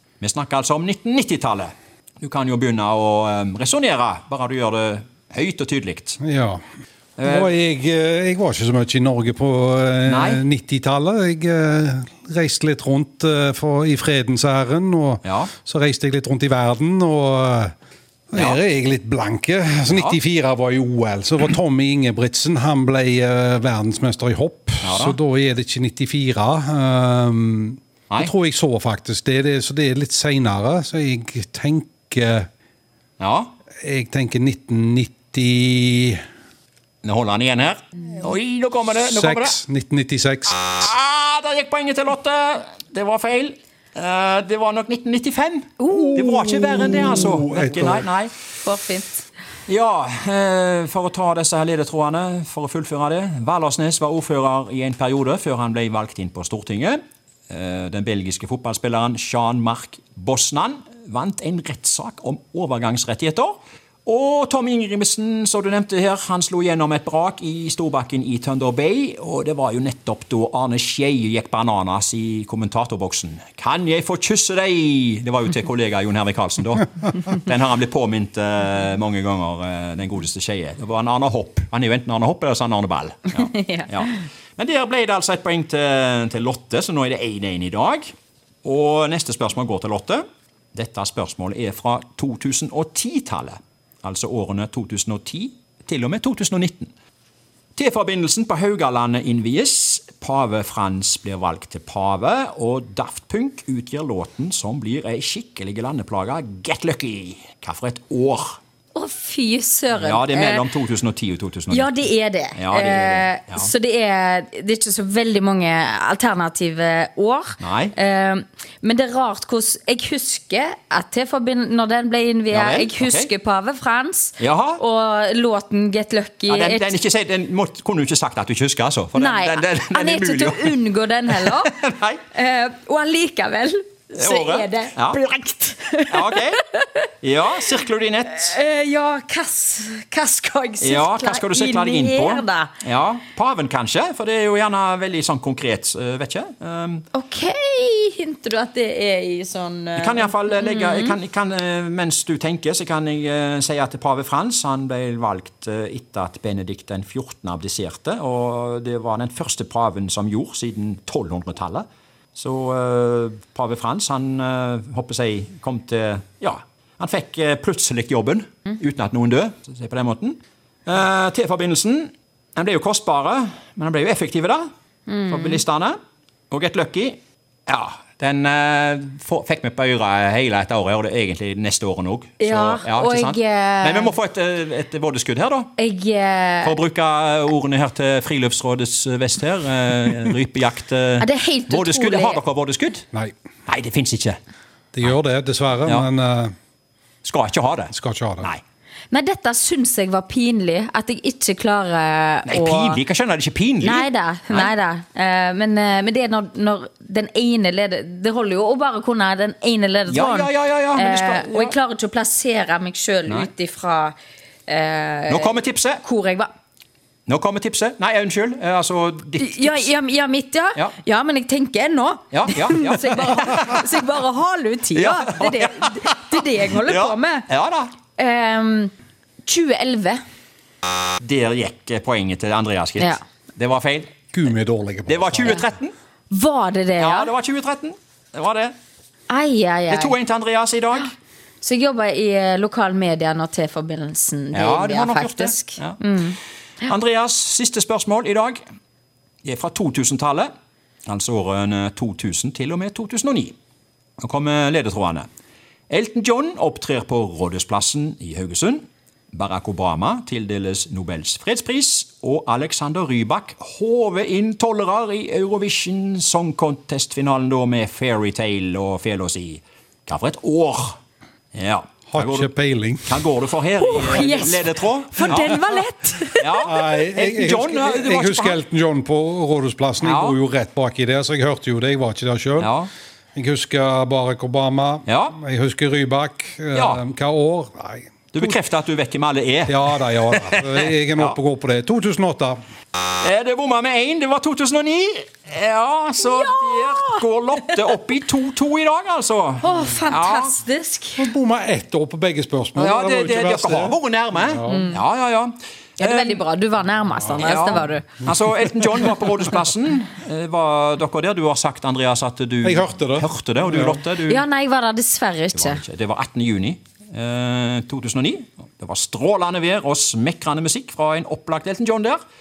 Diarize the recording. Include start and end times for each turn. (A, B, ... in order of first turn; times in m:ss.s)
0:00.2-0:06.2 A
0:06.2-0:06.6 B
0:07.2-0:07.5 A
0:07.2-0:17.7 B
0:10.1-0:10.4 A
0:15.2-0:15.5 A
0:18.3-0:32.5 B
0:18.3-0:18.6 A
0:19.9-0:20.2 A
0:24.8-0:25.2 A
0:33.2-0:33.5 A
0:33.8-0:36.2 B
0:37.0-0:39.6 A
0:39.0-0:40.7 B
0:40.7-0:48.3 A
0:45.8-0:46.3 C
0:46.1-0:48.0 B
0:48.6-0:49.2 C
0:49.7-0:57.0 A
0:57.5-1:28.1 A
1:23.4-1:23.9 C
1:28.6-1:36.9 A
1:37.8-1:48.6 A
1:48.9-1:50.6 C
1:50.0-1:51.9 A
1:51.7-2:06.9 C
1:52.6-1:53.7 A
1:57.6-1:57.9 A
2:02.5-2:03.3 A
2:04.4-2:04.8 A
2:06.5-2:12.2 A
2:09.2-2:11.7 C
2:12.3-2:17.0 C
2:14.1-2:15.2 A
2:16.1-2:16.6 A
2:17.2-2:18.5 A
2:18.3-2:22.7 C
2:20.8-2:27.0 A
2:27.1-2:31.2 C
2:30.0-2:41.8 A
2:42.4-2:54.6 A
2:55.1-2:55.6 C
2:55.3-2:56.0 A
2:56.5-3:05.7 A
3:02.4-3:04.2 C
3:05.8-3:06.8 C
3:06.6-3:13.0 A
3:11.2-3:12.4 C
3:13.7-3:14.4 A
3:14.9-3:16.5 B
3:17.2-3:18.6 A
3:17.9-3:18.5 B
3:19.1-3:23.0 C
3:22.5-3:24.7 A
3:23.8-3:34.2 C
3:30.1-3:31.7 A
3:34.7-3:36.5 C
3:35.3-3:36.0 A
3:37.3-3:39.9 A
3:39.4-3:47.5 C
3:42.3-3:43.8 A
3:44.9-3:47.9 A
3:48.2-3:48.9 C
3:49.4-3:50.2 C
3:51.2-3:54.1 A
3:54.3-3:55.6 B
3:55.1-3:55.9 A
3:56.3-3:57.3 C
3:57.0-3:58.7 A
3:59.3-4:00.2 C
3:59.9-4:01.1 A
4:01.6-4:06.4 C
4:04.5-4:06.0 A
4:06.8-4:08.6 A
4:09.4-4:10.5 A
4:11.0-4:13.5 A
4:14.2-4:15.3 A
4:15.9-4:31.0 A
4:31.5-4:32.5 A
4:32.1-4:33.2 B
4:33.0-4:35.6 A
4:33.8-4:36.8 C
4:36.4-4:38.6 A
4:36.6-4:42.7 B
4:40.0-4:40.4 A
4:42.6-4:42.9 A
4:43.3-4:48.5 B
4:45.0-4:45.4 A
4:46.7-4:47.0 A
4:48.3-4:51.4 A
4:49.7-4:52.6 B
4:53.2-5:00.5 A
4:56.2-4:57.8 C
4:59.6-5:01.3 C
5:01.2-5:04.9 B
5:02.8-5:06.4 A
5:04.6-5:05.0 C
5:06.0-5:08.1 C
5:07.4-5:14.4 A
5:12.6-5:14.0 B
5:14.2-5:15.8 C
5:15.5-5:22.2 A